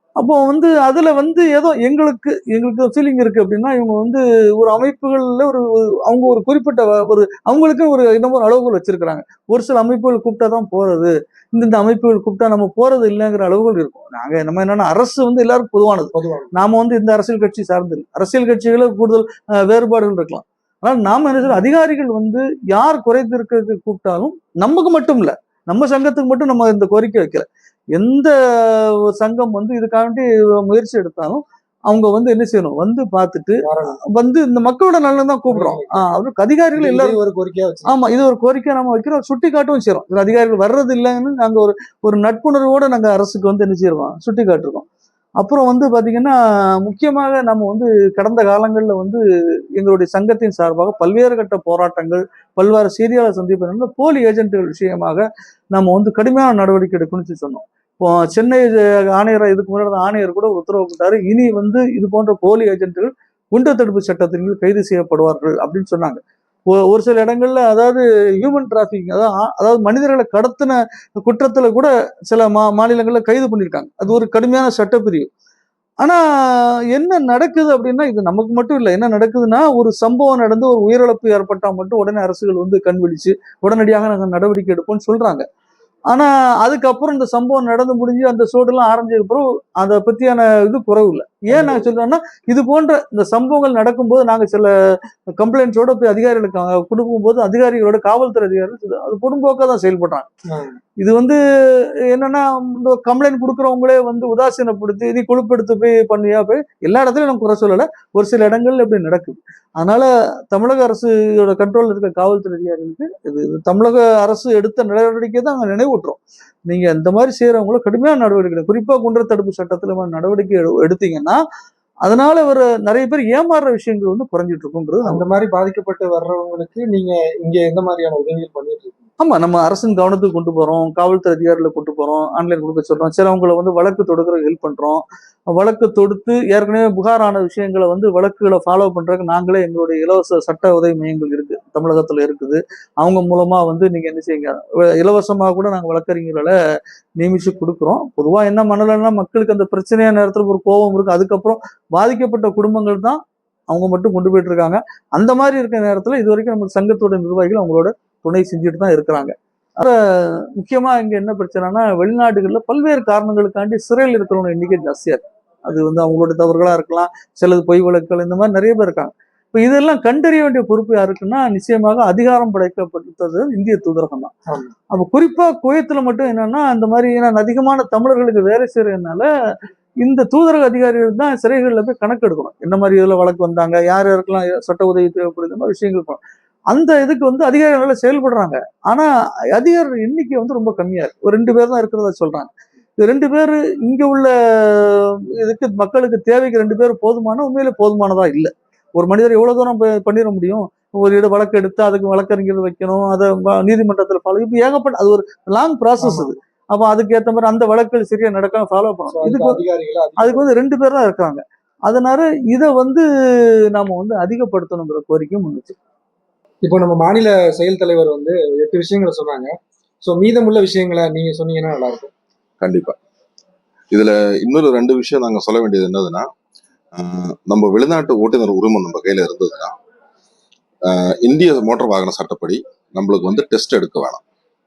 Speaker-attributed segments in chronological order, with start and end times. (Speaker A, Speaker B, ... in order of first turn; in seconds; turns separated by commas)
Speaker A: 0.2-37.2, Speaker B: 16.1-16.5, Speaker B: 33.6-34.0, Speaker B: 35.5-36.1, Speaker B: 36.8-38.0, Speaker A: 37.9-44.9, Speaker A: 45.4-49.2, Speaker A: 49.8-75.3, Speaker A: 76.0-85.5, Speaker A: 86.1-94.7, Speaker B: 91.5-91.9, Speaker A: 95.4-100.3, Speaker B: 100.5-100.8, Speaker A: 101.0-101.4, Speaker A: 102.1-121.4, Speaker A: 122.0-125.2, Speaker B: 125.0-129.1, Speaker A: 129.2-146.5, Speaker A: 147.2-174.3, Speaker B: 174.5-174.7, Speaker A: 174.9-179.3, Speaker A: 180.0-186.2, Speaker A: 186.7-192.5, Speaker A: 193.0-209.6, Speaker B: 206.0-206.3, Speaker B: 209.1-210.5, Speaker A: 210.2-213.1, Speaker A: 213.7-215.8, Speaker B: 216.6-222.1, Speaker C: 222.6-223.0, Speaker C: 223.9-226.3, Speaker C: 226.9-229.8, Speaker C: 230.8-234.2